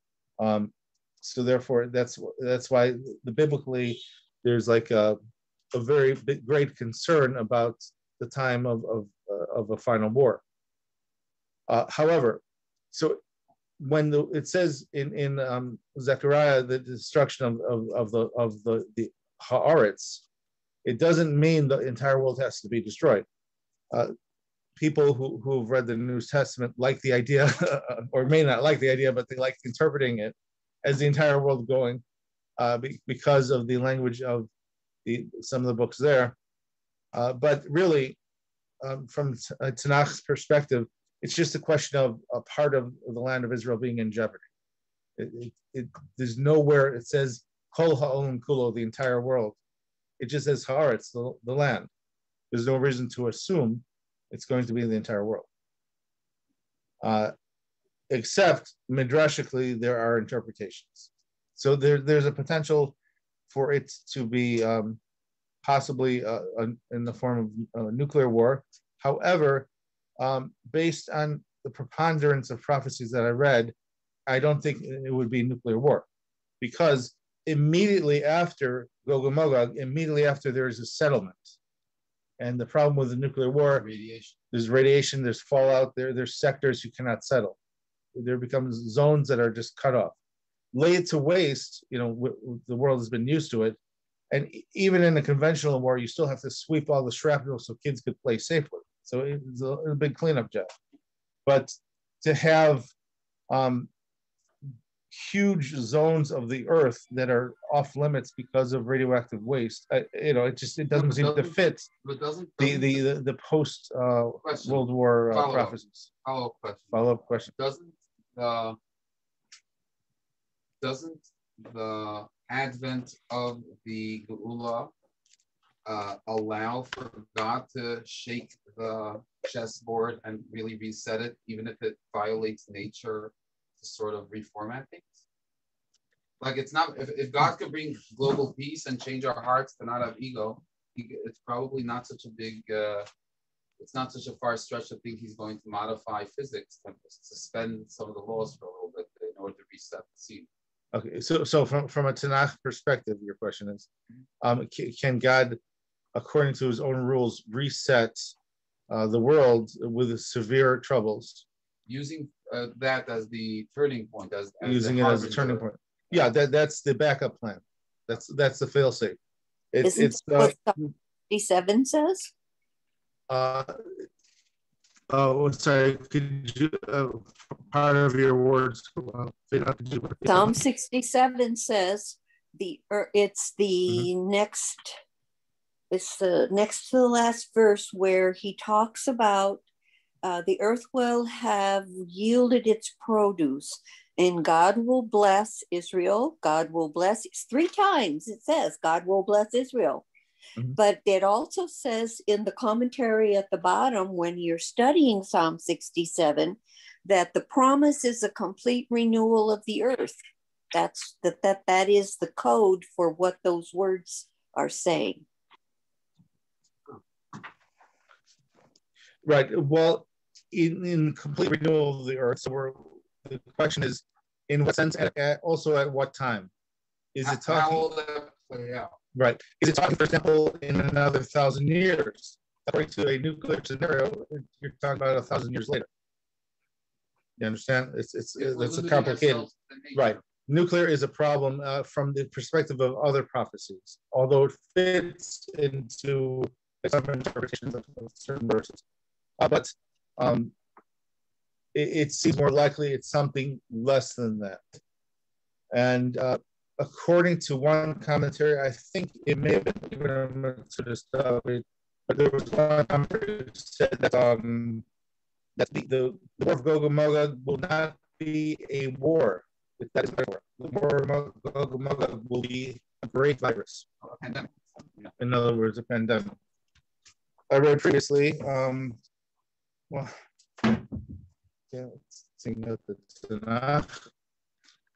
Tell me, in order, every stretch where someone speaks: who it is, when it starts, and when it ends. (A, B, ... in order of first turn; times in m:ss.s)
0:00.4-0:05.2 A
0:05.7-0:10.4 A
0:11.7-0:13.2 A
0:13.8-0:20.2 A
0:20.8-0:23.2 A
0:24.8-0:32.0 A
0:32.6-0:34.5 A
0:35.0-0:36.4 A
0:37.1-0:38.2 A
0:38.8-0:44.4 A
0:45.2-0:49.6 A
0:50.2-0:51.9 A
0:52.5-0:55.5 A
0:57.0-0:57.3 A
0:58.1-1:03.0 A
1:03.5-1:05.0 A
1:05.6-1:09.7 A
1:10.2-1:13.7 A
1:14.3-1:16.0 A
1:16.6-1:21.6 A
1:22.4-1:23.9 A
1:23.7-1:24.4 B
1:24.5-1:27.6 A
1:28.1-1:30.1 A
1:30.7-1:33.8 A
1:34.3-1:40.7 A
1:41.4-1:42.9 A
1:43.5-1:43.9 A
1:45.1-1:51.9 A
1:50.9-1:53.0 B
1:52.6-1:56.1 A
1:54.4-1:57.0 B
1:56.9-1:57.5 A
1:57.5-1:58.8 B
2:00.8-2:04.9 B
2:05.8-2:15.2 B
2:16.4-2:23.1 B
2:23.8-2:30.5 B
2:30.9-2:33.9 A
2:34.4-2:35.6 A
2:36.1-2:38.3 A
2:38.9-2:41.4 A
2:41.9-2:45.7 B
2:44.6-2:49.2 A
2:49.7-2:50.6 A
2:49.8-2:52.3 C
2:53.3-2:53.8 A
2:55.1-3:00.5 A
3:00.2-3:05.0 C
3:05.9-3:09.6 C
3:10.2-3:20.0 C
3:20.7-3:30.2 C
3:30.7-3:35.2 C
3:39.2-3:46.5 A
3:47.1-3:47.8 A
3:47.2-3:49.0 B
3:49.1-3:55.9 A
3:57.4-4:08.8 A
3:58.4-4:00.2 B
4:09.4-4:10.5 A
4:11.7-4:14.8 A
4:15.7-4:24.8 A
4:25.6-4:33.8 A
4:34.0-4:35.1 B
4:35.2-4:36.4 A
4:37.5-4:39.0 A
4:39.9-4:40.8 A
4:41.7-4:44.0 A